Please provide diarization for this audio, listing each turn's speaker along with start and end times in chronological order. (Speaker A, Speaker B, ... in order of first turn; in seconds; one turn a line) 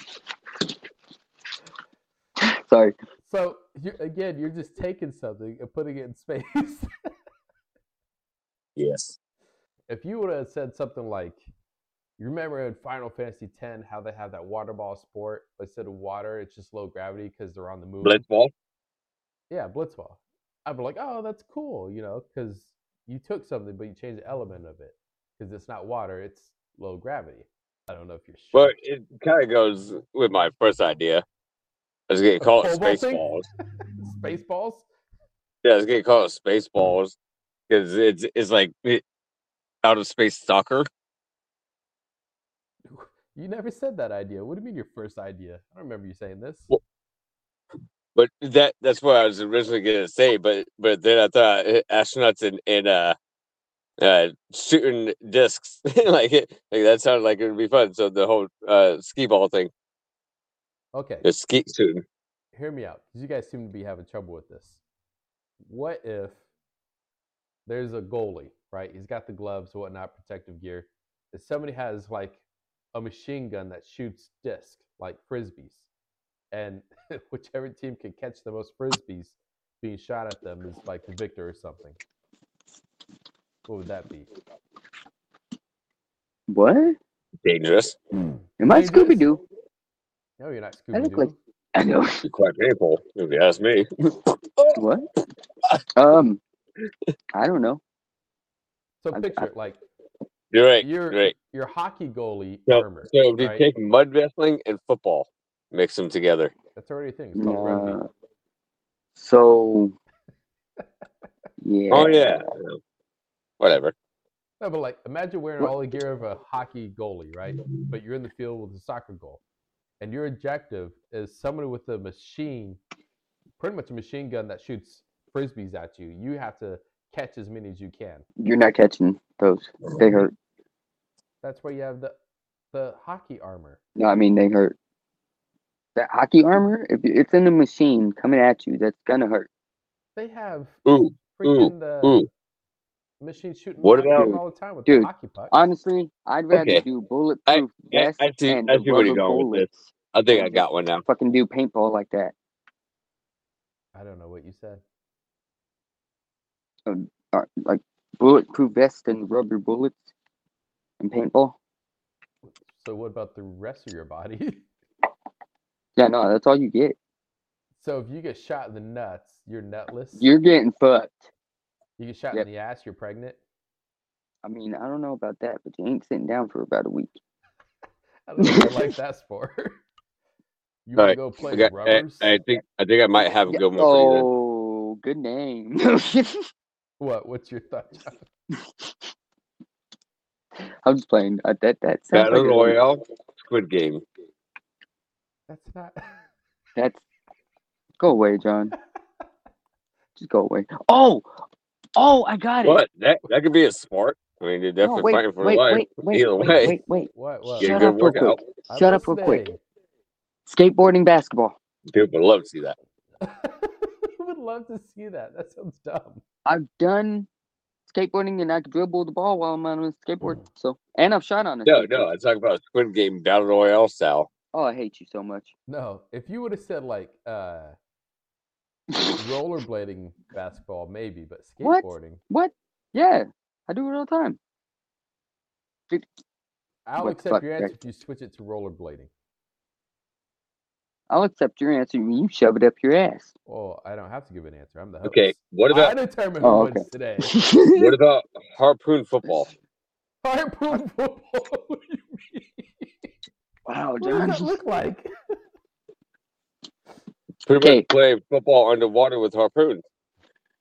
Speaker A: 2.4-3.0
Speaker B: 3.2-6.9
Speaker C: 8.8-9.2
Speaker B: 9.9-11.4
Speaker B: 12.2-18.2
Speaker C: 18.0-18.5
Speaker B: 19.5-28.7
Speaker C: 28.5-31.2
Speaker C: 32.1-33.5
Speaker B: 32.4-33.3
Speaker B: 34.0-34.9
Speaker C: 35.6-37.1
Speaker C: 37.7-39.0
Speaker C: 39.8-40.9
Speaker B: 42.9-46.7
Speaker C: 48.1-53.2
Speaker C: 54.0-59.7
Speaker B: 60.9-61.2
Speaker C: 61.2-62.0
Speaker B: 62.5-64.8
Speaker B: 65.7-66.4
Speaker B: 67.7-72.4
Speaker B: 72.9-75.9
Speaker B: 76.5-82.0
Speaker B: 83.7-84.3
Speaker A: 86.5-87.0
Speaker C: 87.4-88.0
Speaker A: 88.6-89.4
Speaker B: 88.6-89.3
Speaker B: 90.4-91.3
Speaker A: 90.9-92.2
Speaker C: 92.2-93.9
Speaker C: 94.5-94.8
Speaker A: 94.7-95.0
Speaker A: 95.9-96.4
Speaker A: 97.3-97.8
Speaker B: 99.0-99.8
Speaker A: 99.1-99.5
Speaker C: 100.5-101.3
Speaker B: 100.8-103.6
Speaker C: 102.7-106.5
Speaker B: 106.7-108.0
Speaker A: 107.3-108.1
Speaker A: 109.2-109.9
Speaker A: 111.6-112.3
Speaker C: 111.9-112.8
Speaker C: 113.6-113.9
Speaker B: 114.6-119.4
Speaker B: 120.0-122.8
Speaker B: 123.6-128.2
Speaker A: 128.4-130.3
Speaker B: 131.4-132.1
Speaker B: 132.7-133.8
Speaker A: 133.9-134.8
Speaker A: 135.9-139.5
Speaker B: 140.2-140.8
Speaker C: 140.8-142.3
Speaker B: 141.3-142.2
Speaker B: 143.2-145.6
Speaker C: 143.8-144.3
Speaker A: 144.2-152.3
Speaker C: 146.5-146.8
Speaker C: 147.5-151.0
Speaker B: 153.9-154.8
Speaker A: 156.9-160.0
Speaker A: 161.0-161.6
Speaker B: 162.6-164.6
Speaker A: 166.0-166.9
Speaker B: 167.8-170.2
Speaker A: 170.2-171.3
Speaker B: 172.0-173.4
Speaker A: 174.4-177.1
Speaker B: 178.3-179.8
Speaker A: 178.4-178.9
Speaker B: 180.8-182.4
Speaker C: 181.0-184.3
Speaker A: 183.5-186.4
Speaker B: 187.0-188.2
Speaker A: 190.8-192.8
Speaker C: 192.1-194.0
Speaker B: 195.5-196.1
Speaker A: 196.8-197.0
Speaker A: 198.0-198.7
Speaker A: 200.2-201.3
Speaker A: 201.9-202.8
Speaker C: 202.6-206.8
Speaker A: 204.8-209.4
Speaker B: 206.7-208.0
Speaker C: 207.6-208.4
Speaker B: 208.7-209.6
Speaker A: 210.4-211.6
Speaker C: 211.9-212.8
Speaker B: 213.2-216.2
Speaker A: 216.4-217.3
Speaker A: 217.9-222.1
Speaker C: 221.7-224.3
Speaker A: 224.5-225.5
Speaker B: 225.7-227.8
Speaker B: 229.1-232.2
Speaker A: 231.6-234.4
Speaker B: 236.8-239.1
Speaker A: 237.0-237.7
Speaker A: 241.1-243.3
Speaker B: 243.5-247.4
Speaker C: 245.0-245.9
Speaker A: 246.4-247.9
Speaker C: 247.7-249.5
Speaker B: 250.2-253.1
Speaker A: 253.7-254.5
Speaker B: 254.0-255.1
Speaker C: 257.4-259.8
Speaker A: 257.6-257.9